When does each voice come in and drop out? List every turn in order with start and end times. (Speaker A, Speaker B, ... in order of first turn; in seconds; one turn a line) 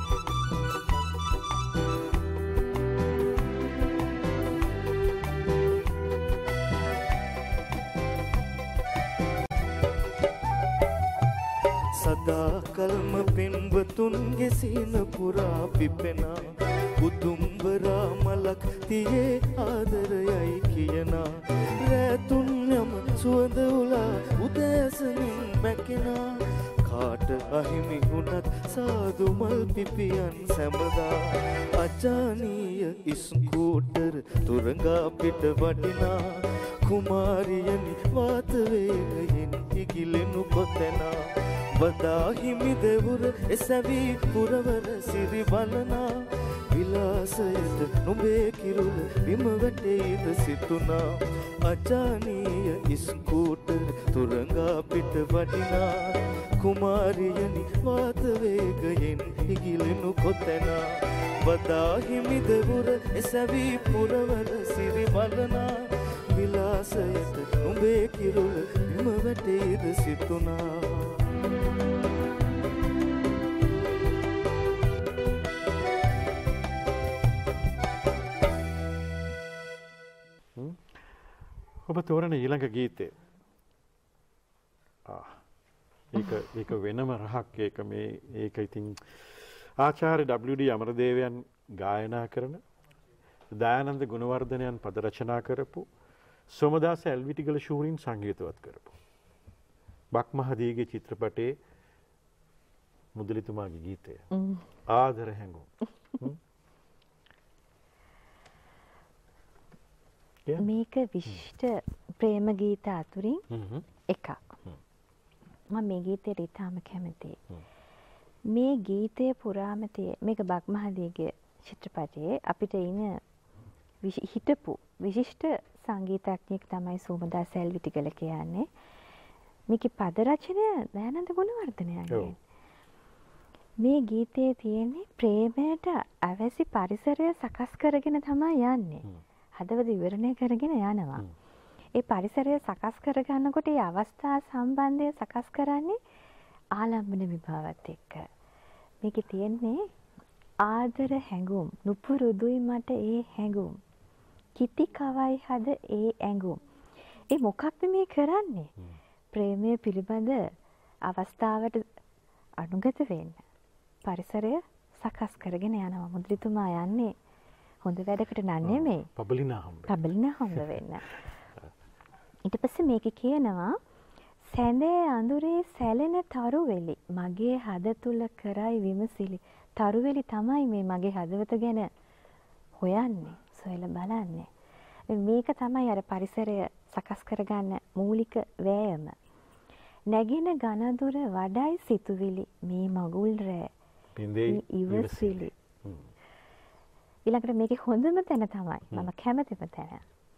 Speaker A: 11.9-71.2
Speaker B: 80.5-81.0
Speaker B: 81.9-83.1
Speaker B: 85.0-85.4
Speaker B: 86.1-92.6
Speaker B: 93.5-95.9
Speaker B: 96.5-99.0
Speaker B: 100.1-101.5
Speaker B: 103.2-104.2
Speaker C: 104.3-104.6
Speaker B: 104.9-106.4
Speaker C: 110.6-113.4
Speaker B: 113.5-113.9
Speaker C: 114.1-114.6
Speaker C: 115.7-117.4
Speaker C: 118.5-123.2
Speaker C: 124.0-128.7
Speaker C: 129.7-132.4
Speaker C: 133.8-139.1
Speaker C: 139.6-141.3
Speaker C: 142.0-146.0
Speaker C: 146.8-148.2
Speaker C: 149.0-149.8
Speaker C: 150.6-153.8
Speaker C: 154.6-156.6
Speaker C: 157.3-158.7
Speaker C: 159.3-160.4
Speaker C: 161.1-161.8
Speaker C: 162.6-163.4
Speaker C: 164.1-167.1
Speaker C: 167.8-169.1
Speaker B: 168.6-170.0
Speaker C: 169.9-171.1
Speaker C: 172.5-173.8
Speaker C: 174.5-181.9
Speaker C: 182.8-184.5
Speaker C: 185.1-189.2
Speaker C: 190.1-193.7
Speaker B: 194.2-196.1
Speaker C: 194.5-195.5
Speaker C: 197.3-200.0